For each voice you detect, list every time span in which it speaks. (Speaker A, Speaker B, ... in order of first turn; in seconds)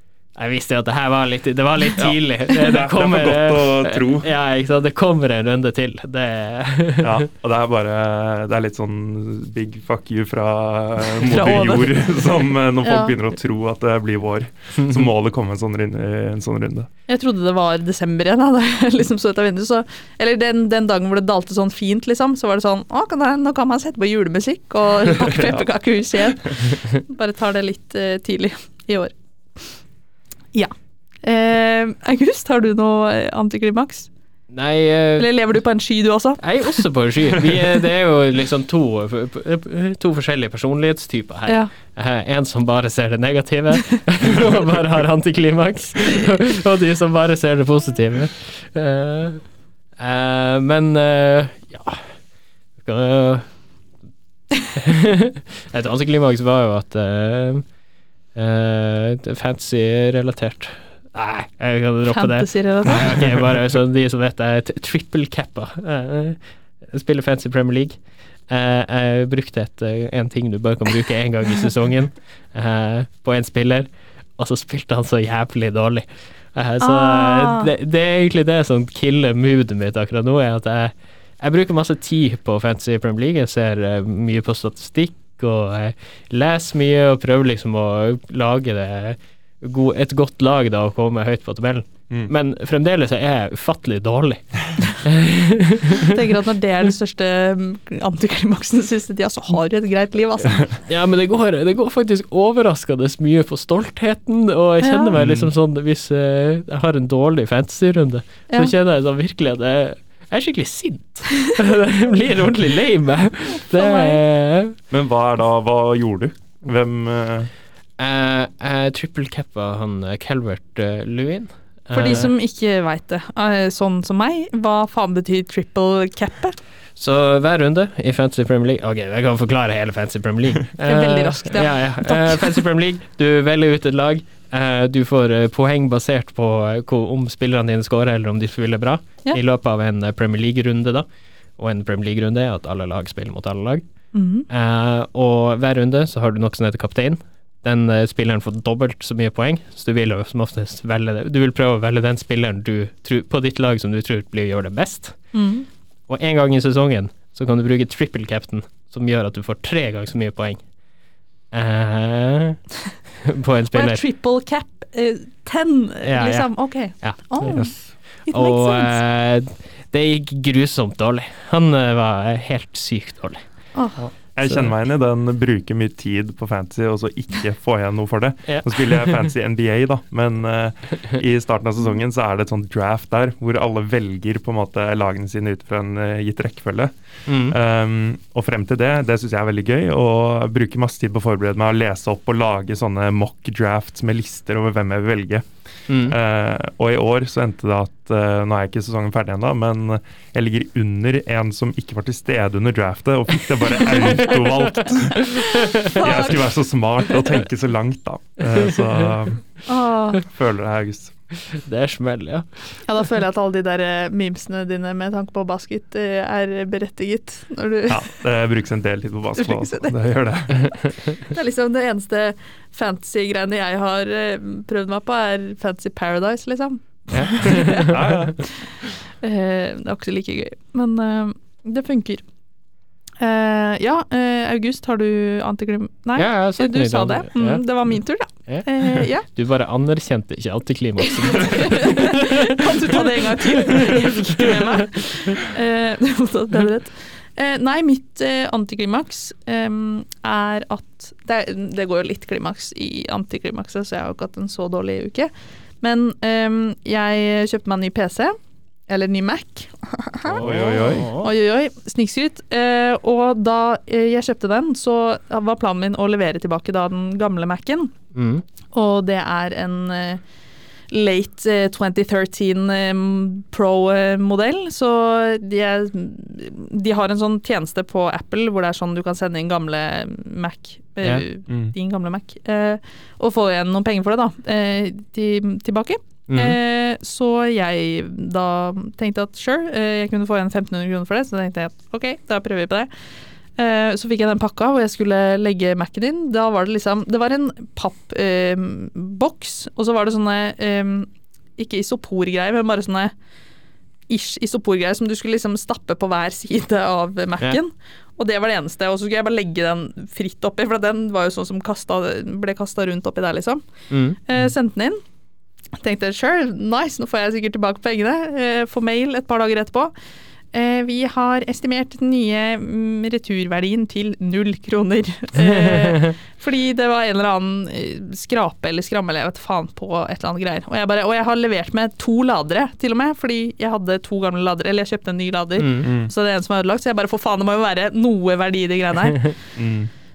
Speaker A: 0.3-7.2, 34.5-35.3, 36.4-49.4, 50.0-52.0, 52.8-53.5, 54.6-57.6, 58.3-68.0, 68.5-96.2, 100.9-114.8, 118.0-122.3, 127.0-141.1, 141.6-143.8, 144.5-155.2, 156.1-160.6, 161.5-162.6, 163.2-164.0, 166.0-166.5, 167.0-167.6, 168.3-173.4, 178.5-179.2, 187.3-187.6, 195.9-196.2, 203.9-206.1, 211.5-212.5, 227.1-228.3, 236.2-237.7, 238.5-244.9, 260.2-261.3, 268.1-268.4, 286.3-286.6, 313.9-314.2, 325.4-326.1, 335.6-335.9
Speaker B: 2.0-4.3, 7.0-16.9, 25.3-25.6, 105.2-105.5, 114.9-117.5, 167.5-167.8, 174.0-186.9, 187.4-195.5, 196.0-209.4, 210.2-211.1, 217.9-220.7, 227.7-228.4, 260.4-261.1, 335.8-336.1, 339.6-339.9
Speaker C: 11.1-12.2, 12.8-13.1, 17.1-29.1, 31.2-34.1, 35.2-36.8, 62.1-63.1, 76.8-77.7, 96.0-100.7, 104.8-105.2, 113.7-114.2, 121.9-126.5, 130.8-132.6, 144.1-144.4, 155.3-155.7, 163.7-167.7, 168.3-169.0, 173.7-174.0, 205.4-206.4, 209.7-210.2, 212.8-218.1, 219.4-219.9, 221.2-228.5, 229.2-232.2, 233.2-239.2, 241.2-258.4, 258.9-260.4, 261.1-267.9, 268.7-270.2, 270.9-292.9, 293.6-303.1, 304.1-313.6, 314.2-315.0, 315.8-319.9, 320.5-339.3